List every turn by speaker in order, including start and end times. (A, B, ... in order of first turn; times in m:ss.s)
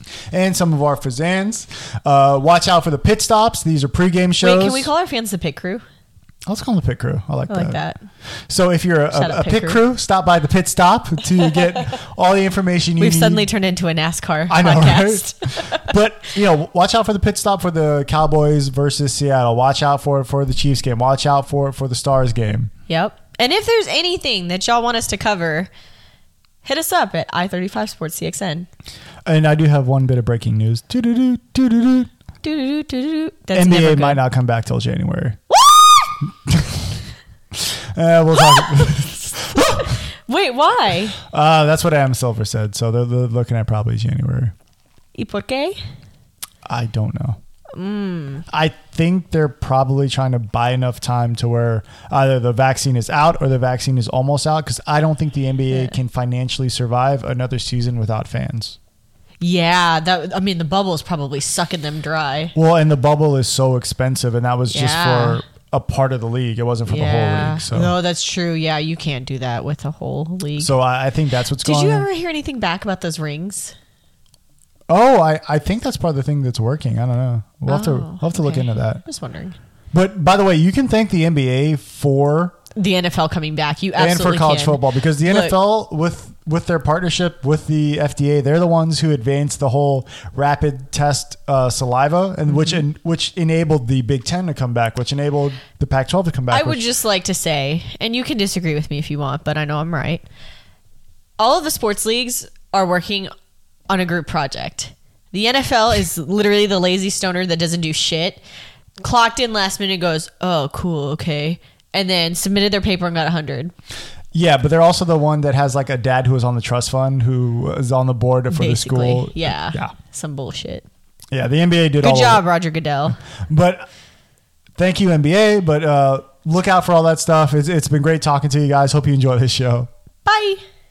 0:00.3-0:04.9 A
0:04.4-0:05.8 B
0:06.5-0:07.8 A
0:07.5-0:08.0 B
0:08.5-0:13.5 A
0:09.1-0:09.8 B
0:13.0-0:15.9 B
0:14.5-0:22.7 A
0:22.9-0:25.7 B
0:26.6-0:28.7 B
0:29.2-0:32.1 A
0:32.4-0:34.2 B
0:33.5-0:35.4 A
0:36.4-0:36.9 A
0:37.5-0:40.0 A
0:38.5-0:39.0 B
0:39.5-0:41.2 B
0:41.2-0:44.5 A
0:45.1-0:45.8 B
0:46.6-0:47.4 A
0:47.7-0:48.4 B
0:48.5-0:58.8 A
0:55.7-0:56.0 B
0:59.4-1:02.5 B
1:02.5-1:07.9 A
1:04.7-1:05.4 B
1:06.9-1:10.7 B
1:10.6-1:12.1 A
1:11.6-1:13.7 B
1:14.9-1:19.0 A
1:17.7-1:19.6 B
1:19.9-1:22.6 A
1:22.7-1:25.5 B
1:24.0-1:36.8 A
1:32.5-1:32.8 B
1:36.5-1:40.2 B
1:41.4-1:43.3 B
1:43.9-1:48.4 B
1:49.0-1:53.7 B
1:54.3-1:59.9 A
1:58.5-2:00.8 B
2:01.3-2:02.4 A
2:02.0-2:03.2 B
2:03.5-2:03.8 A
2:04.8-2:09.9 A
2:10.2-2:10.6 B